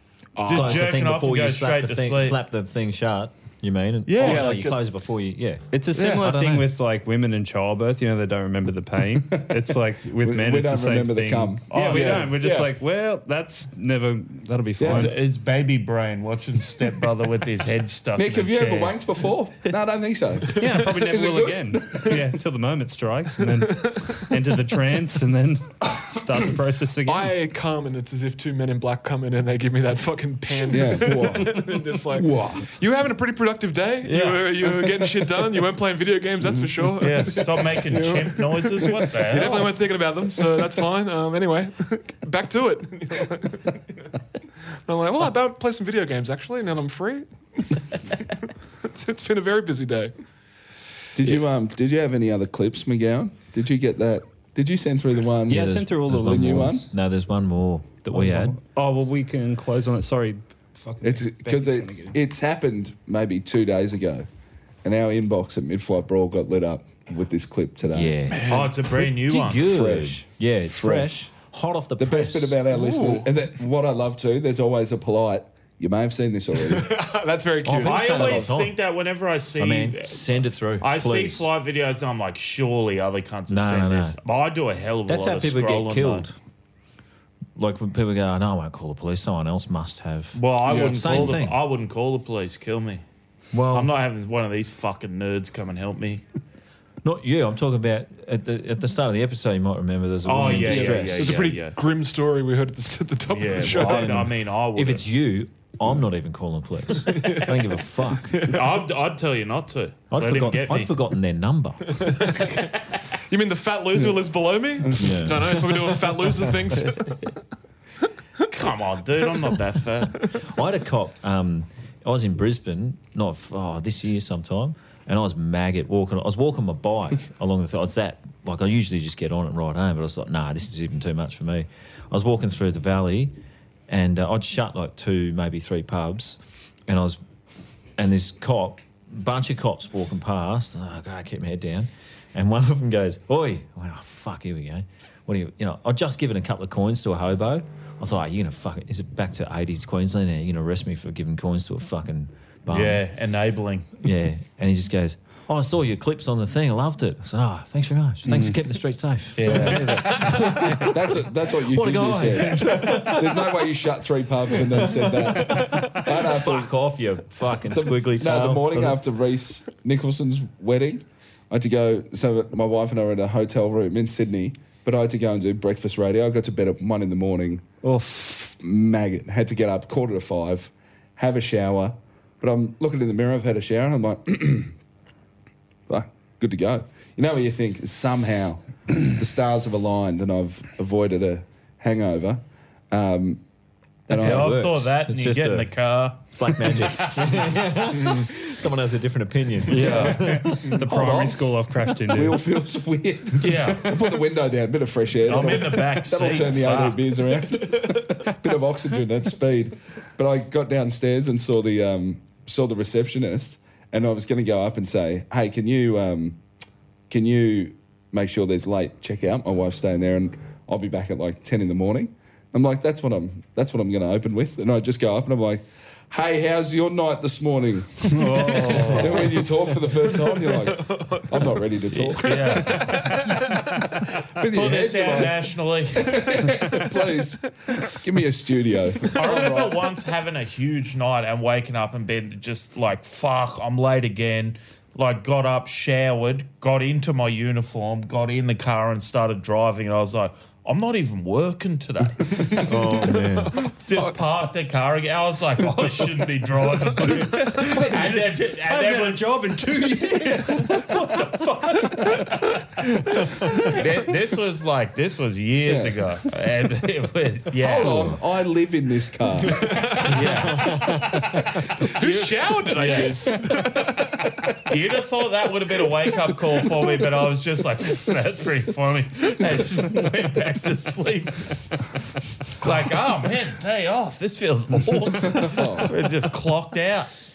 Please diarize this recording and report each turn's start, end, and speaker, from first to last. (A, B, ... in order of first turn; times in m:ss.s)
0:00.3-0:01.0 A
0:00.5-0:02.4 B
0:00.5-0:06.7 C
0:04.0-0:04.6 B
0:04.2-0:04.8 A
0:05.7-0:15.2 D
0:06.0-0:06.2 B
0:09.2-0:12.0 E
0:11.7-0:12.6 B
0:12.0-0:12.6 A
0:14.8-0:15.1 E
0:14.8-0:19.0 B
0:18.2-0:22.2 E
0:20.6-0:27.3 D
0:27.0-0:43.8 A
0:30.7-0:32.7 E
0:34.0-0:34.4 B
0:36.4-0:36.8 E
0:37.0-0:39.8 B
0:44.8-0:50.1 A
0:51.2-0:56.8 E
0:55.5-0:56.8 D
0:55.5-0:58.6 C
0:58.1-1:02.2 D
1:01.0-1:04.3 E
1:04.8-1:08.2 E
1:07.9-1:12.6 C
1:08.3-1:08.7 A
1:08.4-1:09.6 B
1:09.5-1:11.1 E
1:12.0-1:16.9 E
1:12.7-1:13.3 A
1:16.6-1:18.5 A
1:17.6-1:18.8 C
1:17.8-1:26.3 B
1:19.6-1:21.5 C
1:23.5-1:24.2 C
1:25.1-1:26.4 C
1:27.6-1:31.6 C
1:30.3-1:33.0 B
1:30.6-1:31.4 A
1:33.5-1:33.9 C
1:33.7-1:36.2 B
1:37.0-1:41.4 C
1:40.2-1:41.8 B
1:40.6-1:44.3 A
1:43.3-1:45.0 B
1:43.6-1:48.5 C
1:47.0-1:47.8 A
1:48.3-1:48.8 A
1:48.4-1:50.9 B
1:50.1-1:52.2 C
1:52.0-1:52.7 A
1:53.3-1:57.3 A
1:55.0-1:56.0 C
1:58.5-2:00.2 B
2:00.3-2:13.3 C
2:13.9-2:17.2 C
2:18.0-2:33.0 C
2:32.7-2:33.9 B
2:34.0-2:43.4 C
2:38.2-2:38.6 D
2:39.4-2:40.4 B
2:40.9-2:46.8 E
2:44.7-2:49.0 C
2:47.6-2:57.6 E
2:57.8-2:58.6 D
2:58.6-3:04.8 E
3:05.9-3:13.4 E
3:14.1-3:14.8 E
3:14.1-3:17.6 B
3:14.1-3:20.6 C
3:19.7-3:22.4 D
3:19.7-3:20.2 B
3:19.8-3:36.4 E
3:23.4-3:24.0 B
3:25.2-3:27.0 B
3:37.1-3:53.1 E
3:48.1-3:49.1 D
3:48.4-3:49.3 B
3:49.9-3:51.7 A
3:51.9-3:53.2 B
3:52.3-3:53.4 A
3:54.3-3:59.8 E
3:54.5-3:56.5 B
3:56.2-3:57.0 A
3:59.1-4:12.7 B
4:12.4-4:14.1 A
4:12.6-4:13.6 C
4:13.7-4:19.3 B
4:16.9-4:17.6 A
4:17.6-4:22.3 D
4:23.6-4:28.1 B
4:25.6-4:26.0 E
4:27.6-4:29.9 E
4:29.6-4:30.8 A
4:30.0-4:31.1 B
4:30.5-4:30.9 C
4:31.8-4:34.2 A
4:32.0-4:33.3 B
4:34.7-4:41.5 B
4:42.5-4:47.1 B
4:45.4-4:45.9 E